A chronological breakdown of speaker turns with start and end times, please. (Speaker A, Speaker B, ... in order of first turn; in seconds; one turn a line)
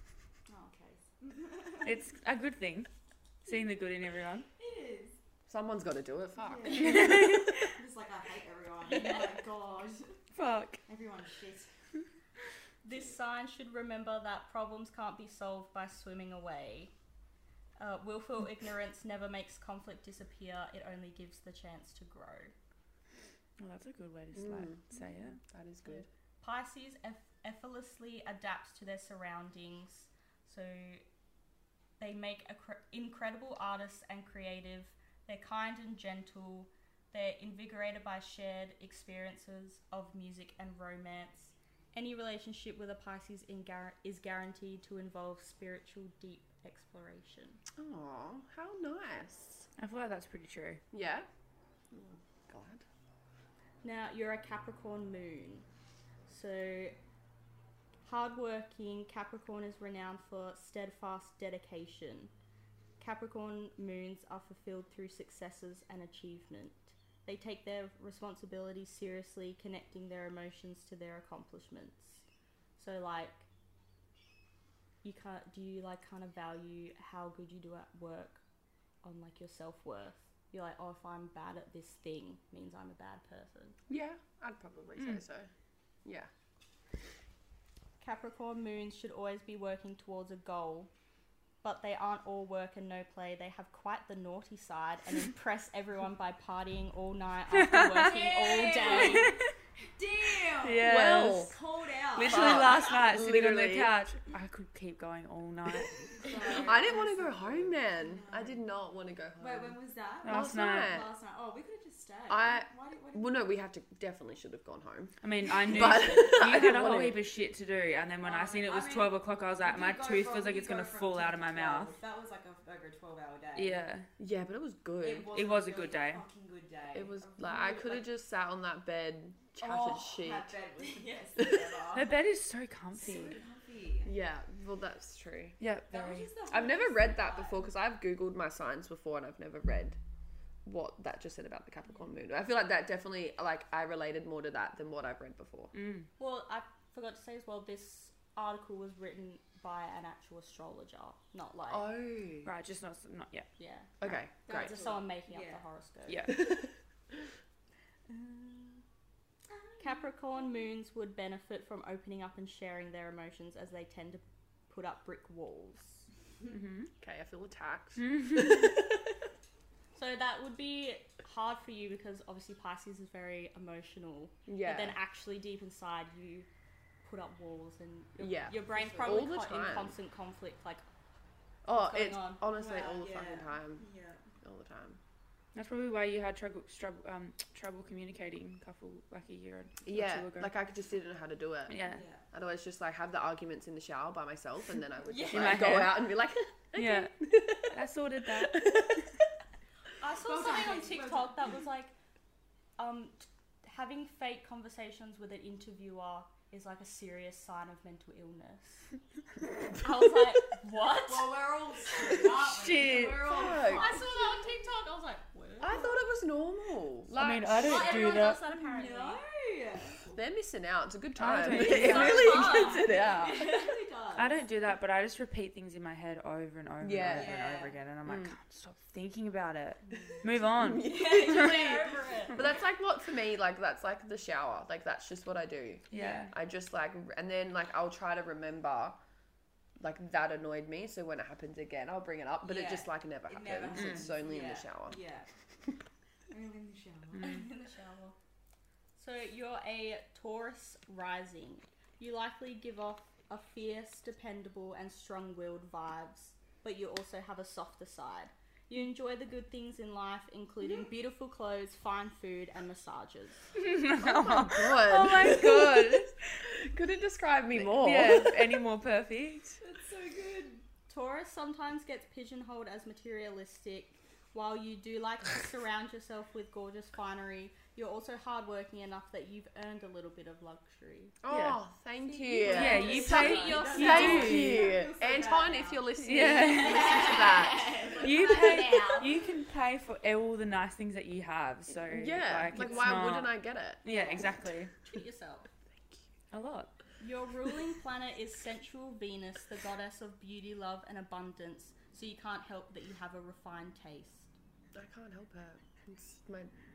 Speaker A: 0.5-2.0
Speaker B: 1.8-2.9
Speaker B: 3.4-4.5
Speaker A: 4.6-5.2
Speaker C: 5.5-7.4
Speaker A: 6.4-10.2
Speaker B: 6.7-7.7
Speaker B: 10.3-10.8
Speaker A: 10.8-11.7
Speaker D: 12.8-16.9
Speaker D: 17.8-22.5
Speaker B: 23.6-25.4
Speaker C: 24.3-24.8
Speaker C: 25.4-26.1
Speaker D: 25.9-31.0
Speaker D: 32.0-47.6
Speaker C: 47.8-49.7
Speaker B: 49.8-50.8
Speaker C: 50.9-51.3
Speaker C: 52.5-52.8
Speaker D: 53.8-55.6
Speaker D: 56.3-57.0
Speaker D: 58.0-62.3
Speaker D: 63.0-72.2
Speaker D: 72.8-73.5
Speaker D: 75.0-78.4
Speaker D: 79.0-83.8
Speaker C: 83.9-85.5
Speaker C: 86.0-86.3
Speaker D: 88.0-90.9
Speaker D: 91.6-99.4
Speaker B: 97.5-98.2
Speaker A: 98.0-99.4
Speaker B: 98.8-99.4
Speaker A: 100.0-102.9
Speaker B: 100.6-101.5
Speaker C: 100.8-101.5
Speaker B: 102.1-106.0
Speaker C: 102.2-104.0
Speaker A: 106.2-108.6
Speaker C: 106.5-111.1
Speaker A: 109.4-113.3
Speaker B: 110.2-111.0
Speaker C: 112.3-117.2
Speaker B: 115.2-122.0
Speaker A: 118.2-123.8
Speaker B: 123.5-124.1
Speaker C: 124.2-125.3
Speaker A: 125.0-128.1
Speaker B: 125.3-126.2
Speaker C: 126.9-130.5
Speaker A: 129.6-132.2
Speaker C: 131.4-131.7
Speaker B: 131.9-133.4
Speaker A: 132.9-134.1
Speaker C: 134.0-135.6
Speaker B: 135.6-136.3
Speaker A: 135.9-137.7
Speaker C: 136.5-140.0
Speaker C: 140.6-145.7
Speaker B: 145.7-146.1
Speaker D: 146.2-151.9
Speaker C: 151.7-152.5
Speaker B: 152.4-153.5
Speaker D: 153.6-153.9
Speaker C: 154.0-154.8
Speaker D: 154.4-156.3
Speaker A: 154.5-155.6
Speaker B: 156.1-156.4
Speaker C: 156.3-156.7
Speaker D: 158.1-158.8
Speaker A: 159.5-160.4
Speaker D: 159.8-166.1
Speaker B: 166.5-166.9
Speaker C: 167.0-169.0
Speaker B: 168.0-168.7
Speaker D: 169.9-176.5
Speaker C: 174.5-175.0
Speaker D: 177.0-180.8
Speaker C: 178.2-179.9
Speaker A: 178.7-179.2
Speaker C: 181.6-183.9
Speaker D: 181.7-182.4
Speaker A: 182.5-184.3
Speaker C: 184.4-185.0
Speaker B: 185.5-190.5
Speaker C: 189.8-191.8
Speaker B: 191.7-192.0
Speaker A: 191.8-192.2
Speaker C: 192.3-199.1
Speaker A: 195.1-195.8
Speaker B: 195.3-196.1
Speaker B: 196.7-198.7
Speaker D: 200.0-201.9
Speaker A: 200.2-201.3
Speaker D: 202.8-208.9
Speaker D: 209.8-211.5
Speaker A: 211.1-214.1
Speaker B: 212.4-213.3
Speaker C: 213.2-214.0
Speaker D: 213.5-215.9
Speaker C: 215.6-218.0
Speaker B: 217.1-218.4
Speaker D: 217.6-219.2
Speaker A: 217.6-220.0
Speaker C: 220.1-223.7
Speaker B: 221.2-222.5
Speaker D: 221.5-223.4
Speaker A: 221.7-224.4
Speaker B: 224.2-231.2
Speaker C: 226.8-227.4
Speaker A: 227.1-227.8
Speaker C: 228.0-228.3
Speaker C: 230.6-239.0
Speaker D: 230.8-232.4
Speaker A: 230.9-232.4
Speaker B: 235.9-236.3
Speaker A: 235.9-236.3
Speaker C: 239.8-245.0
Speaker A: 242.4-245.3
Speaker B: 243.7-244.1
Speaker A: 246.3-247.4
Speaker B: 247.1-247.4
Speaker D: 247.2-248.2
Speaker D: 249.0-263.4
Speaker B: 263.5-266.2
Speaker C: 264.0-268.6
Speaker B: 267.5-269.6
Speaker A: 269.6-270.6
Speaker D: 270.9-281.1
Speaker C: 281.2-287.9
Speaker B: 281.3-281.6
Speaker D: 282.0-284.5
Speaker A: 282.3-289.3
Speaker B: 282.5-284.6
Speaker B: 286.0-287.0
Speaker B: 288.0-294.7
Speaker D: 288.4-289.0
Speaker C: 291.9-293.8
Speaker D: 293.8-295.5
Speaker B: 296.3-296.7
Speaker D: 297.0-304.3
Speaker C: 304.7-306.5